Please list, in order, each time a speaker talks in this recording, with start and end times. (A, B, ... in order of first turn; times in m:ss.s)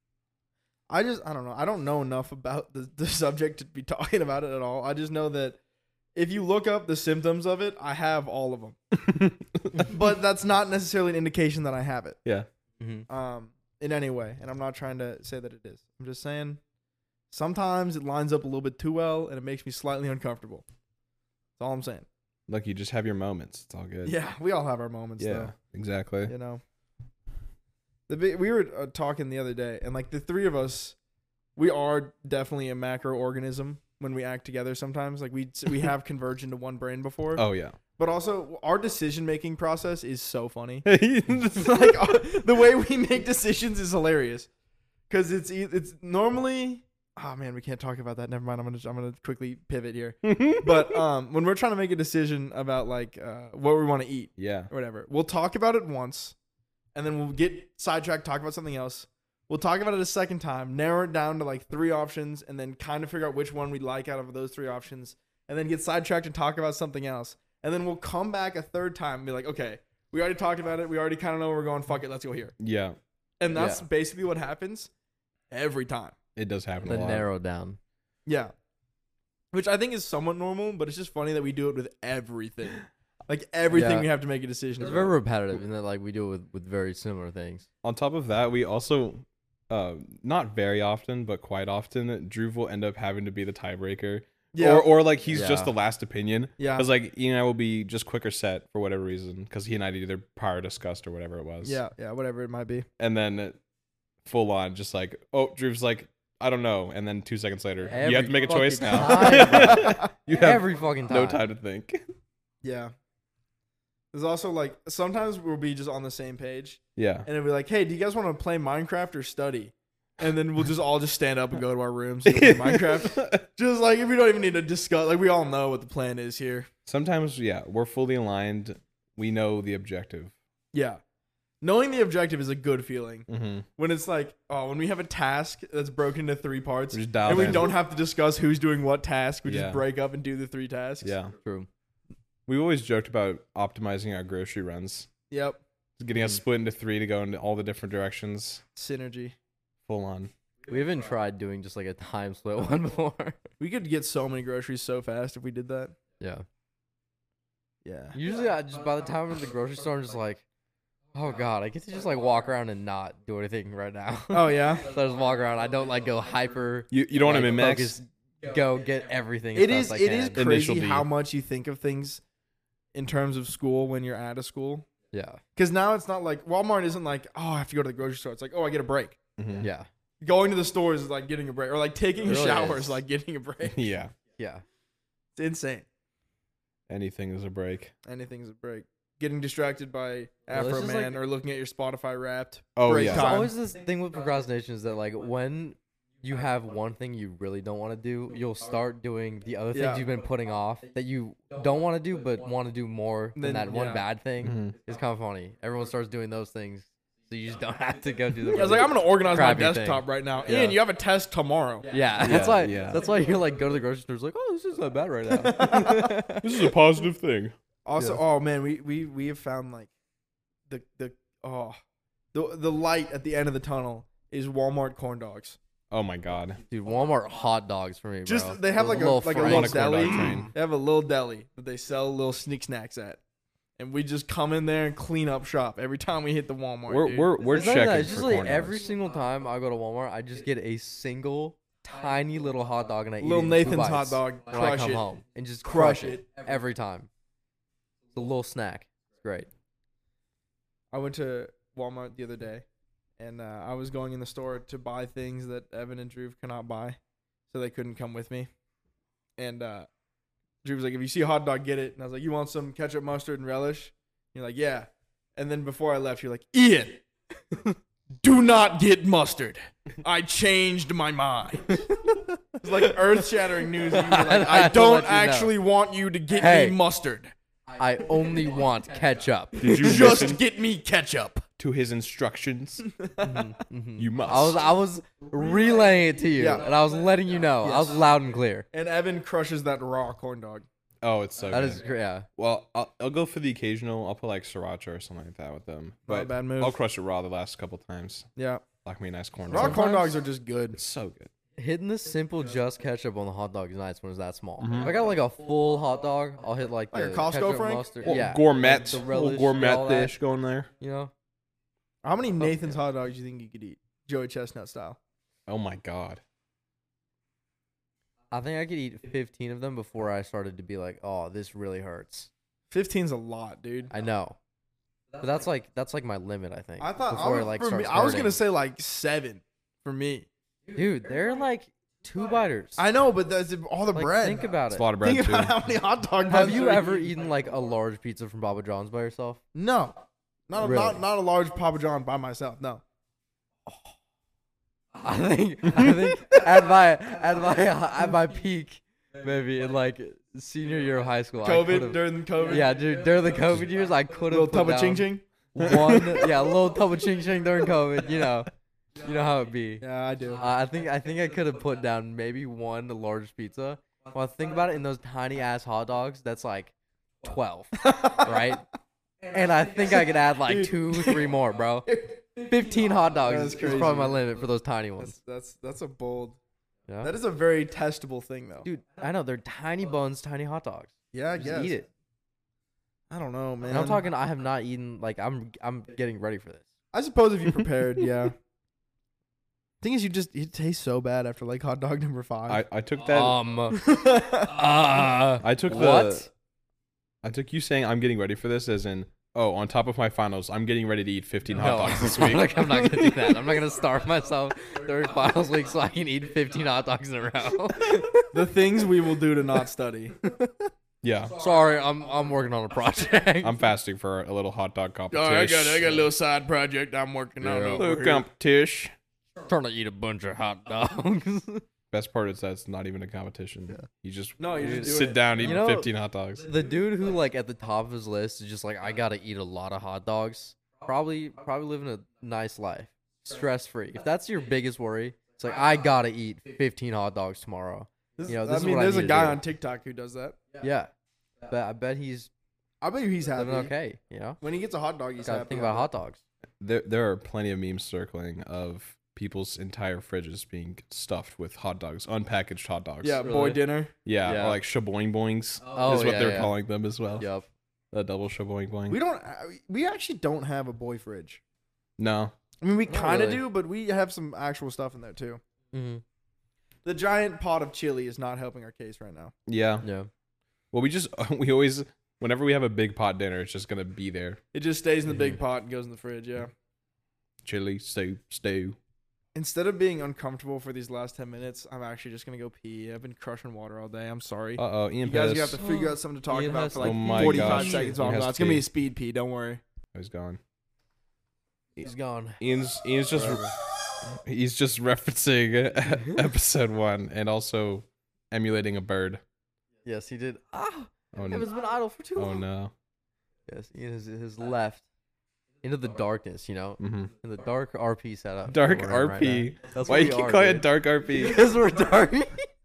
0:00.9-0:05.6 A
0:06.2-0:08.8 A
0:08.9-0:09.9 B
0:09.9-0:12.2 A
0:12.8-0:13.0 C
0:13.1-0:16.6 A
0:17.3-0:20.6 A
0:21.6-0:22.1 A
0:22.5-0:24.2 B
0:24.0-0:25.5 A
0:25.2-0:26.3 B
0:26.3-0:26.6 A
0:28.1-0:31.0 A
0:31.6-0:37.4 A
0:37.4-0:37.8 B
0:38.0-0:40.9 A
0:40.8-0:42.0 B
0:41.5-0:44.5 A
0:45.1-0:56.4 A
0:50.2-0:51.0 B
0:54.4-0:54.7 B
0:57.0-1:12.6 A
1:12.6-1:13.0 B
1:13.4-1:14.9 A
1:13.5-1:13.8 C
1:15.5-1:16.2 A
1:16.4-1:17.3 B
1:16.8-1:17.8 C
1:18.3-1:18.5 A
1:19.5-1:25.2 A
1:23.7-1:24.1 C
1:24.8-1:27.7 C
1:27.8-1:41.8 B
1:34.5-1:35.0 A
1:35.3-1:35.7 C
1:36.6-1:36.9 A
1:41.6-1:42.9 A
1:43.0-1:43.6 B
1:44.2-1:52.0 B
1:47.9-1:51.4 C
1:49.2-1:50.1 A
1:52.6-1:52.9 A
1:54.1-2:06.7 A
1:57.0-1:57.3 B
2:02.3-2:03.4 B
2:06.9-2:10.3 B
2:10.7-2:11.0 A
2:11.6-2:21.2 A
2:13.3-2:13.7 B
2:16.9-2:17.8 B
2:19.4-2:19.8 B
2:21.0-2:21.3 B
2:21.4-2:21.7 C
2:22.5-2:25.1 B
2:25.3-2:25.6 A
2:26.0-2:28.6 B
2:28.8-2:29.4 A
2:29.9-2:30.3 B
2:30.7-2:33.4 C
2:33.6-2:36.0 A
2:36.2-2:36.4 C
2:37.8-2:38.2 A
2:38.1-2:40.4 C
2:41.1-2:50.4 C
2:44.3-2:44.9 A
2:46.9-2:48.0 B
2:49.6-2:52.2 A
2:50.4-2:51.1 B
2:53.0-2:54.9 A
2:55.1-2:55.4 C
2:55.6-2:59.2 A
2:59.4-2:59.7 B
2:59.6-2:59.9 C
3:00.2-3:03.9 A
3:02.2-3:03.0 C
3:03.6-3:04.1 B
3:04.4-3:04.6 C
3:05.4-3:05.8 A
3:06.9-3:07.9 B
3:08.0-3:13.5 A
3:10.5-3:11.2 C
3:12.8-3:13.4 B
3:12.9-3:30.0 C
3:19.7-3:20.0 A
3:23.4-3:24.0 A
3:24.4-3:24.8 B
3:28.5-3:31.9 A
3:30.5-3:30.8 B
3:31.9-3:36.2 C
3:32.2-3:33.0 B
3:35.3-3:36.5 A
3:35.9-3:37.6 B
3:37.8-3:39.9 A
3:40.7-3:41.8 A
3:42.3-3:45.6 A
3:45.9-3:46.6 B
3:46.7-3:50.5 C
3:48.3-3:53.2 A
3:49.4-3:50.5 B
3:53.8-3:57.3 A
3:56.9-3:58.8 B
3:57.5-4:07.1 C
4:03.2-4:05.1 A
4:05.6-4:06.2 A
4:08.1-4:09.5 C
4:10.9-4:12.6 A
4:13.2-4:17.0 A
4:17.5-4:18.5 A
4:19.4-4:19.9 A
4:20.6-4:27.0 A
4:28.2-4:31.9 A
4:32.6-4:37.3 A
4:33.9-4:35.5 C
4:36.3-4:36.8 C
4:37.8-4:40.0 C
4:39.6-4:40.4 B
4:39.6-4:41.4 A
4:41.6-4:42.9 B
4:43.0-4:43.5 A
4:43.2-4:48.7 C
4:44.0-4:44.6 B
4:46.4-4:46.7 A
4:47.6-4:48.0 A
4:48.7-4:50.7 A
4:51.0-4:58.3 B
4:51.5-4:52.3 C
4:56.1-4:56.8 A
4:58.4-4:58.6 A
4:58.8-4:59.8 B
4:59.5-5:00.2 C
4:59.5-5:00.8 A
5:00.8-5:01.3 B
5:01.6-5:10.2 C
5:04.6-5:04.9 B
5:06.9-5:07.9 A
5:08.0-5:10.7 B
5:10.8-5:11.1 C
5:12.0-5:15.0 A
5:12.4-5:12.8 C
5:15.5-5:16.2 B
5:18.3-5:22.3 C
5:22.7-5:23.9 A
5:23.9-5:24.4 C
5:25.2-5:28.4 C
5:26.8-5:30.3 A
5:30.8-5:32.8 C
5:32.8-5:37.1 A
5:33.9-5:34.9 C
5:34.7-5:35.6 B
5:36.2-5:39.4 C
5:39.6-5:42.8 A
5:40.6-5:41.0 C
5:45.0-5:58.5 C
5:51.4-5:52.8 A
5:54.3-5:55.2 A
5:55.6-5:56.2 B
5:59.0-6:08.6 C
5:59.8-6:00.4 A
6:07.8-6:08.6 A
6:09.3-6:15.2 C
6:10.5-6:11.3 A
6:13.3-6:14.2 A
6:15.0-6:16.4 A
6:16.9-6:17.1 C
6:17.0-6:18.7 A
6:18.6-6:21.9 C
6:21.1-6:21.8 A
6:23.1-6:24.0 A
6:23.6-6:26.6 C
6:26.9-6:28.4 A
6:29.8-6:32.6 A
6:32.5-6:33.4 B
6:33.0-6:33.8 C
6:33.7-6:34.6 A
6:34.4-6:36.3 C
6:35.4-6:36.3 B
6:37.2-6:43.4 B
6:41.5-6:48.3 C
6:48.3-6:50.3 A
6:51.0-6:51.4 B
6:51.4-6:53.6 C
6:53.4-6:56.0 B
6:55.1-6:58.3 A
6:57.4-6:57.9 C
6:57.7-6:58.9 B
6:59.4-7:01.6 C
7:01.9-7:06.5 B
7:04.4-7:05.6 A
7:04.6-7:05.9 C
7:06.4-7:19.4 C
7:18.2-7:20.4 A
7:20.6-7:20.9 C
7:21.5-7:22.3 C
7:22.8-7:23.7 A
7:23.4-7:24.4 C
7:24.4-7:25.9 A
7:25.2-7:26.2 C
7:26.6-7:33.2 B
7:33.0-7:33.9 A
7:33.2-7:33.6 C
7:34.0-7:37.3 B
7:34.2-7:34.6 C
7:35.7-7:36.6 C
7:37.2-7:37.5 C
7:37.9-7:39.0 B
7:38.9-7:41.4 A
7:42.0-7:42.3 B
7:42.6-7:45.4 A
7:42.9-7:43.4 C
7:45.7-7:46.0 C
7:46.8-7:49.3 A
7:49.5-7:49.9 B
7:49.8-7:50.1 C
7:50.7-7:54.4 B
7:54.5-7:56.5 A
7:57.4-7:58.8 B
7:59.4-8:09.6 A
8:04.6-8:05.6 B
8:05.6-8:08.0 C
8:06.8-8:08.7 B
8:09.9-8:10.4 B
8:11.8-8:12.4 C
8:12.4-8:13.5 B
8:13.1-8:13.5 C
8:14.1-8:19.2 B
8:19.8-8:22.4 C
8:21.1-8:21.5 B
8:22.2-8:22.7 B
8:23.5-8:24.8 C
8:25.6-8:32.5 C
8:26.8-8:27.1 B
8:28.5-8:31.5 B